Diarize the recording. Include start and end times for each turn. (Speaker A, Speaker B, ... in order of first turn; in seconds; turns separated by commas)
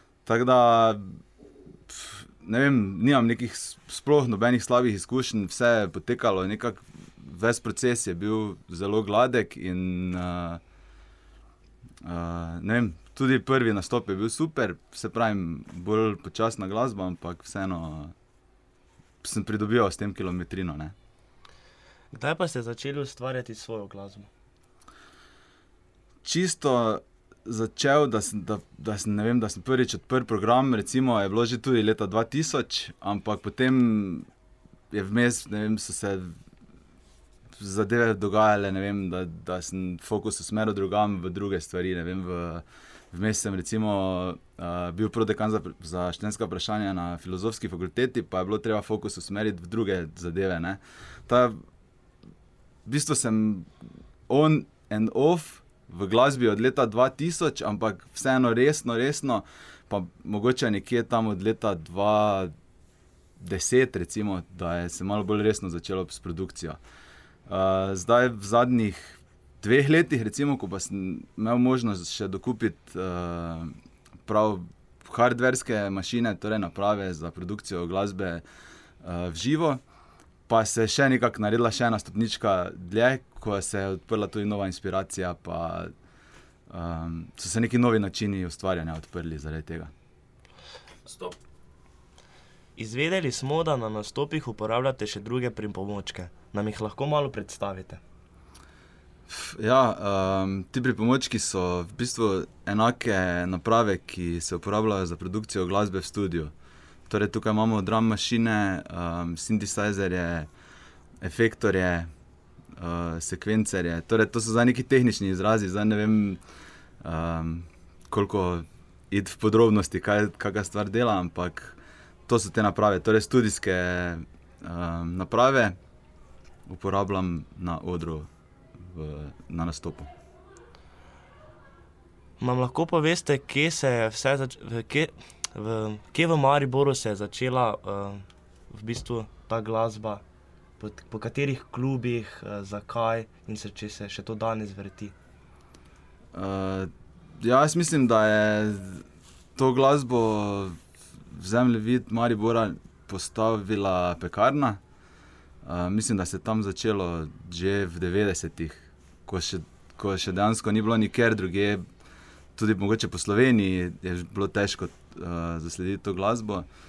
Speaker A: 0.2-1.2, Speaker A: 1.9-10.6, Speaker A: 12.0-18.1, Speaker A: 19.2-20.9, Speaker B: 22.1-24.3, Speaker A: 26.2-34.3, Speaker A: 34.9-36.4, Speaker A: 37.5-51.6, Speaker A: 52.8-53.7, Speaker A: 54.3-62.5, Speaker A: 63.4-66.8, Speaker A: 67.5-73.7, Speaker A: 74.2-78.4, Speaker A: 79.0-79.8, Speaker A: 80.5-85.9, Speaker A: 86.7-89.9, Speaker B: 91.0-91.4, Speaker B: 92.8-98.0, Speaker A: 99.3-106.5, Speaker A: 107.1-110.5, Speaker A: 111.2-112.1, Speaker A: 112.8-116.4, Speaker A: 117.0-125.8, Speaker A: 126.7-130.1, Speaker B: 132.4-140.2, Speaker B: 140.8-145.1, Speaker A: 146.3-149.0, Speaker A: 149.6-154.8, Speaker A: 155.6-161.8, Speaker A: 162.6-166.7